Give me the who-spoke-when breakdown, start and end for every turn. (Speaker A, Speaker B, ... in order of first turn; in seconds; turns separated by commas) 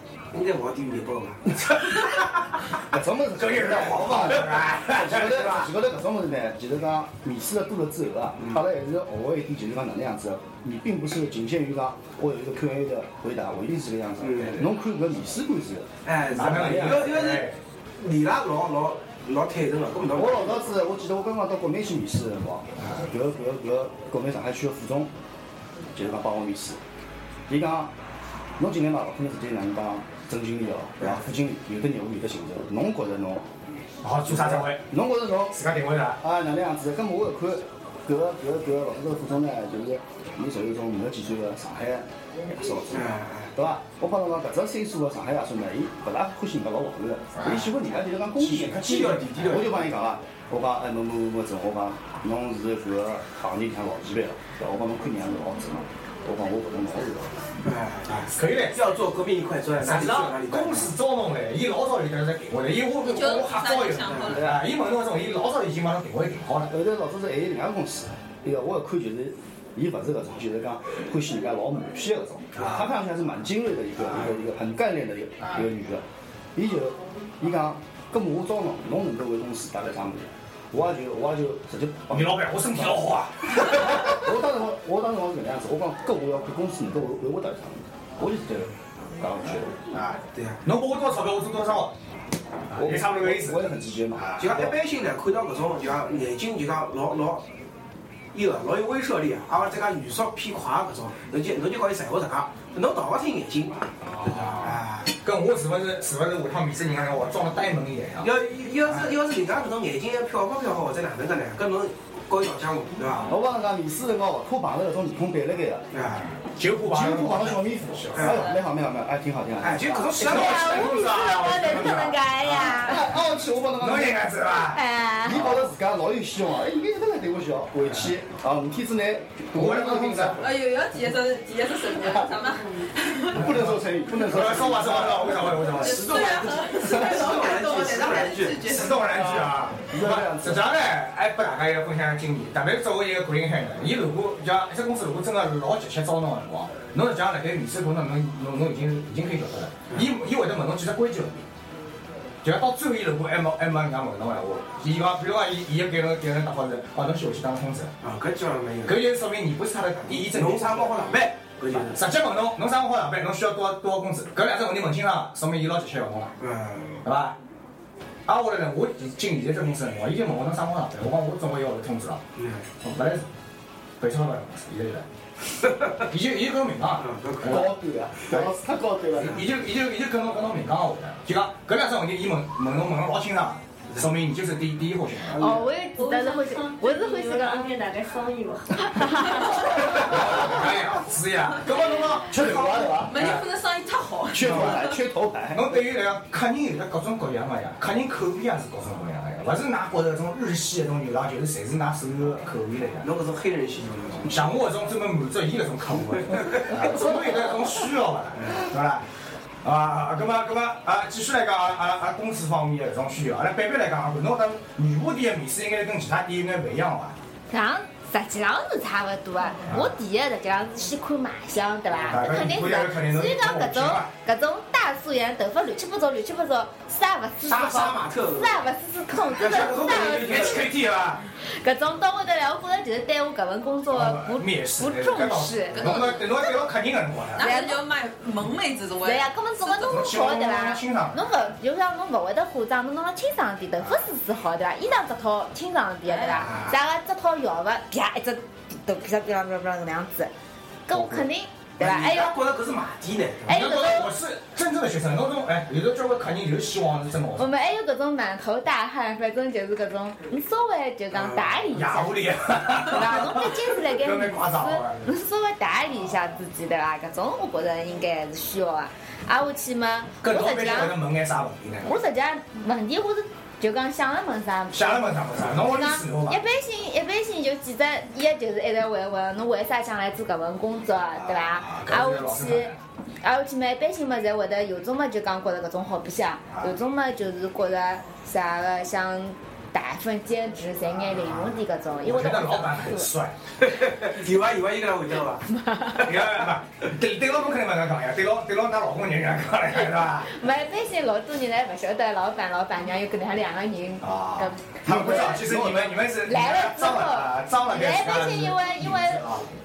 Speaker A: 0.3-2.1, Speaker B: 2.9-17.2, Speaker C: 3.3-5.7, Speaker A: 14.2-14.7, Speaker A: 16.0-17.4, Speaker C: 16.3-17.6, Speaker A: 18.0-20.7, Speaker B: 20.1-25.1, Speaker C: 22.8-23.0, Speaker B: 25.9-26.8, Speaker B: 27.5-27.9, Speaker B: 28.6-33.5, Speaker C: 34.0-34.8, Speaker B: 34.2-35.6, Speaker C: 35.5-36.2, Speaker B: 36.2-57.3, Speaker A: 42.9-43.5, Speaker C: 47.3-47.7, Speaker C: 48.4-49.7, Speaker A: 48.7-49.8, Speaker A: 57.6-60.9, Speaker C: 58.1-58.8, Speaker C: 59.8-66.7, Speaker D: 63.0-64.5, Speaker A: 64.0-64.4, Speaker B: 66.7-76.0, Speaker C: 72.5-72.9, Speaker C: 74.1-74.3, Speaker C: 75.4-75.7, Speaker B: 76.5-89.8, Speaker C: 82.1-84.1, Speaker C: 89.9-91.9, Speaker A: 90.3-90.6, Speaker C: 92.7-94.7, Speaker B: 92.7-94.7, Speaker A: 94.4-97.5, Speaker A: 98.3-105.1, Speaker C: 104.1-108.3, Speaker A: 108.2-113.3, Speaker B: 113.3-115.9, Speaker A: 115.9-116.2, Speaker C: 116.3-118.4, Speaker B: 116.9-120.2, Speaker A: 118.1-118.5, Speaker A: 119.6-120.9, Speaker C: 120.2-123.0, Speaker E: 120.2-123.0, Speaker B: 122.7-124.4, Speaker C: 123.7-124.8, Speaker E: 124.7-125.6, Speaker B: 125.2-130.5, Speaker C: 129.5-130.4, Speaker D: 130.4-133.4, Speaker B: 132.0-132.3, Speaker B: 133.3-135.6, Speaker C: 133.3-136.1, Speaker A: 135.5-138.7, Speaker D: 135.7-139.6, Speaker C: 138.7-151.4, Speaker B: 139.9-140.7, Speaker C: 152.4-157.9, Speaker A: 158.0-159.1, Speaker C: 158.8-161.2, Speaker A: 160.1-162.0, Speaker C: 161.7-166.3, Speaker A: 166.4-167.0, Speaker C: 167.0-167.4, Speaker C: 168.3-172.2, Speaker A: 172.4-172.7, Speaker C: 172.8-173.2, Speaker C: 174.0-175.1, Speaker C: 176.1-177.7, Speaker A: 177.0-177.7, Speaker B: 177.4-179.4, Speaker A: 179.2-179.4, Speaker C: 179.2-185.4, Speaker B: 185.3-185.7, Speaker E: 185.4-187.7, Speaker F: 185.9-189.7, Speaker E: 188.8-189.6, Speaker C: 189.5-193.5, Speaker B: 192.3-193.3, Speaker D: 193.0-194.9, Speaker B: 194.3-195.8, Speaker C: 194.4-194.8, Speaker C: 195.5-203.1, Speaker A: 203.0-204.4, Speaker C: 204.2-209.0, Speaker A: 206.2-207.1, Speaker C: 209.6-217.2, Speaker E: 217.5-230.7, Speaker C: 219.7-219.9, Speaker C: 222.1-224.1, Speaker A: 227.4-228.6, Speaker A: 229.3-230.7, Speaker C: 229.4-231.2, Speaker E: 231.4-236.4, Speaker C: 233.9-237.5, Speaker D: 235.7-236.4, Speaker D: 237.3-240.1, Speaker E: 237.4-237.8, Speaker E: 239.0-250.3, Speaker C: 239.8-241.4, Speaker D: 246.1-246.5, Speaker E: 250.9-252.4, Speaker C: 250.9-251.2, Speaker A: 251.8-253.5, Speaker E: 253.4-254.1, Speaker C: 253.5-257.5, Speaker E: 257.4-271.0, Speaker A: 261.1-261.6, Speaker C: 261.7-265.1, Speaker C: 266.0-266.3, Speaker C: 270.2-272.0, Speaker E: 271.8-282.7, Speaker C: 274.7-276.4, Speaker C: 281.1-282.8, Speaker E: 283.2-293.1, Speaker C: 286.5-286.8, Speaker C: 291.0-293.3, Speaker A: 293.6-295.5, Speaker E: 295.5-296.0, Speaker A: 296.0-296.5, Speaker C: 296.0-300.3, Speaker E: 300.2-305.5, Speaker C: 304.0-309.5, Speaker B: 304.9-305.9, Speaker E: 306.2-309.2